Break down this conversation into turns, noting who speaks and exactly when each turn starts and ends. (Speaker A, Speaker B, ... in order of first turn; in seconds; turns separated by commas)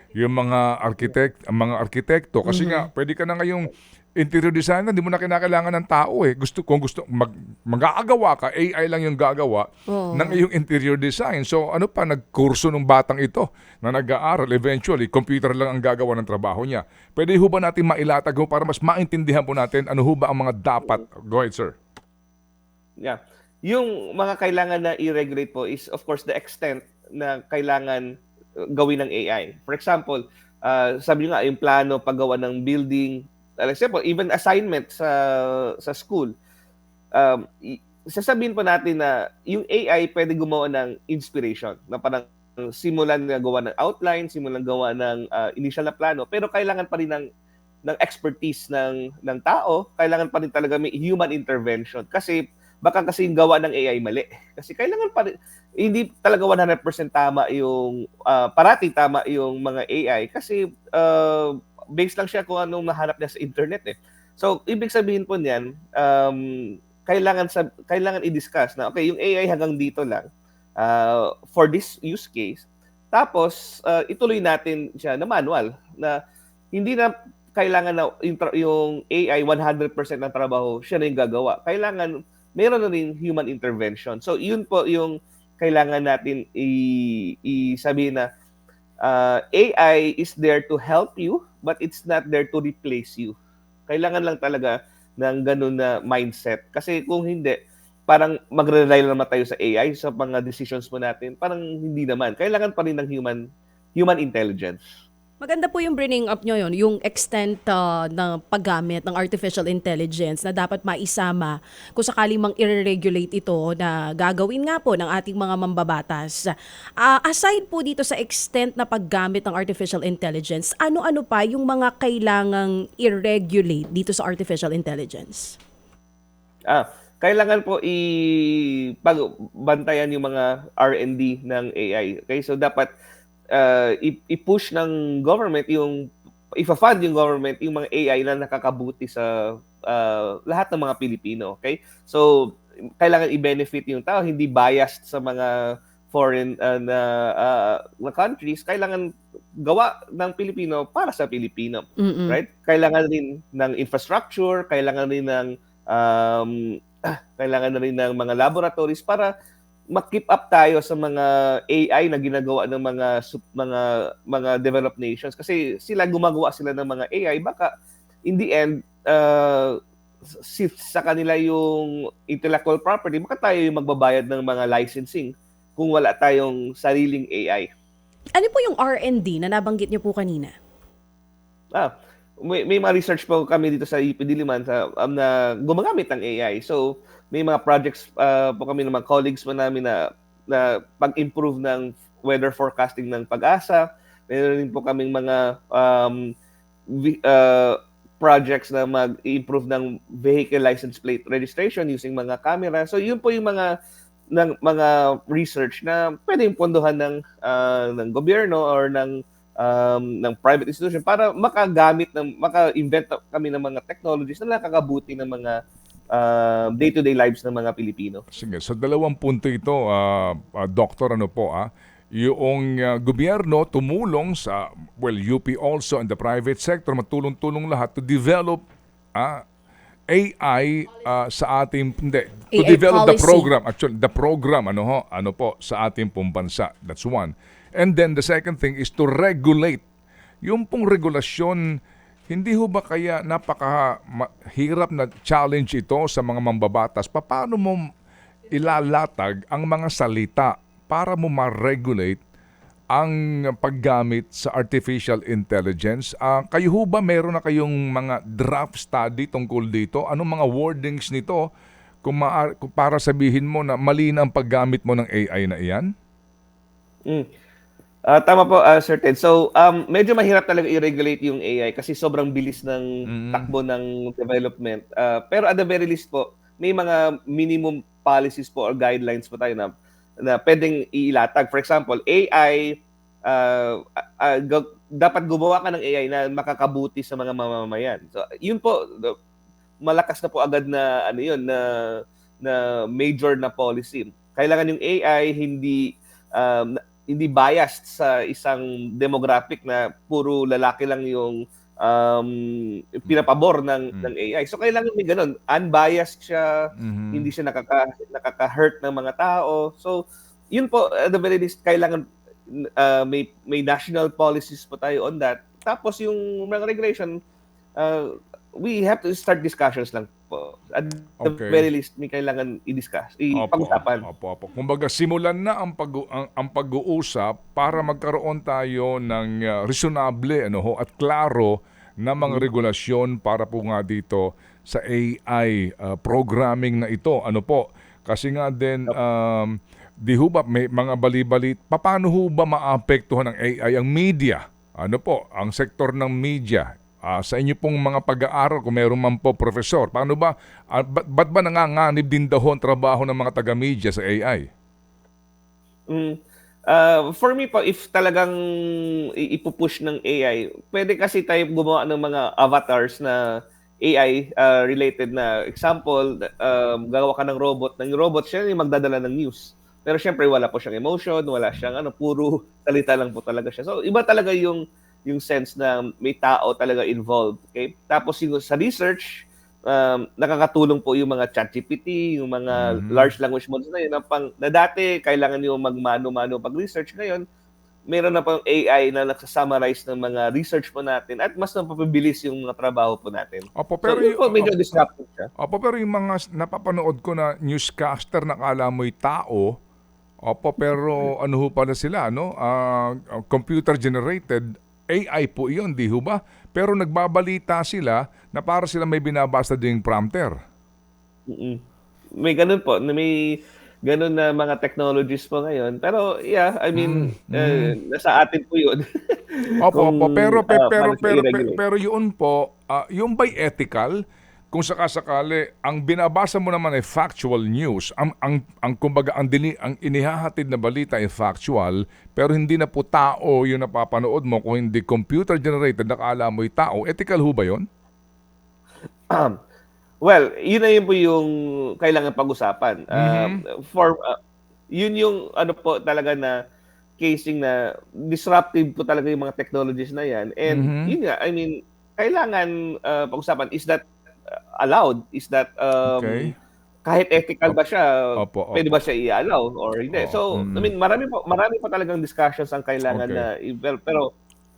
Speaker A: 0.1-21.7, Speaker B: 2.5-2.9, Speaker B: 9.9-10.4, Speaker C: 23.0-28.1, Speaker C: 28.7-36.3, Speaker C: 37.1-47.3, Speaker C: 47.9-66.5, Speaker C: 67.1-70.3, Speaker C: 70.8-76.2, Speaker C: 76.8-88.3, Speaker C: 89.0-93.4, Speaker C: 93.9-97.6, Speaker C: 98.1-103.4, Speaker C: 104.0-104.9, Speaker B: 105.4-125.6, Speaker C: 126.7-132.9, Speaker C: 133.5-136.0, Speaker C: 136.6-139.3, Speaker C: 139.9-142.3, Speaker C: 143.0-145.5, Speaker C: 146.1-149.1, Speaker C: 149.6-159.3, Speaker B: 152.0-152.4, Speaker C: 159.9-167.7, Speaker C: 168.3-169.8, Speaker C: 170.3-177.7, Speaker B: 178.4-180.5, Speaker C: 181.7-196.3, Speaker C: 196.9-203.7, Speaker C: 204.3-215.6, Speaker C: 216.1-218.2, Speaker A: 218.4-228.6, Speaker A: 229.2-229.4, Speaker A: 230.1-239.8, Speaker B: 232.5-233.5, Speaker A: 240.4-241.6, Speaker A: 242.3-247.8, Speaker A: 248.5-252.2, Speaker A: 252.9-261.4, Speaker A: 262.0-265.9, Speaker C: 268.1-279.7, Speaker A: 273.1-273.5, Speaker C: 280.2-282.8, Speaker C: 283.3-289.1, Speaker C: 289.9-310.0, Speaker A: 306.8-307.3, Speaker C: 310.5-317.2, Speaker C: 317.8-324.0, Speaker A: 321.2-321.7, Speaker A: 323.4-354.5, Speaker C: 355.9-356.2, Speaker C: 356.7-358.3, Speaker C: 359.2-363.2, Speaker C: 363.9-387.2, Speaker A: 382.5-383.1, Speaker C: 387.9-395.3, Speaker A: 393.6-394.8, Speaker A: 395.4-399.6, Speaker A: 400.3-410.4, Speaker C: 411.3-411.6, Speaker C: 412.2-413.3, Speaker C: 413.9-421.6, Speaker A: 416.8-417.8, Speaker A: 419.6-424.0, Speaker A: 424.5-437.6, Speaker C: 439.1-439.4, Speaker C: 440.0-441.3, Speaker C: 441.8-444.2, Speaker A: 442.9-443.4, Speaker C: 444.7-446.4, Speaker C: 447.0-456.3, Speaker A: 450.5-451.0, Speaker A: 455.9-456.4, Speaker C: 456.9-464.1, Speaker A: 458.2-458.8, Speaker A: 459.9-460.7, Speaker A: 462.9-463.3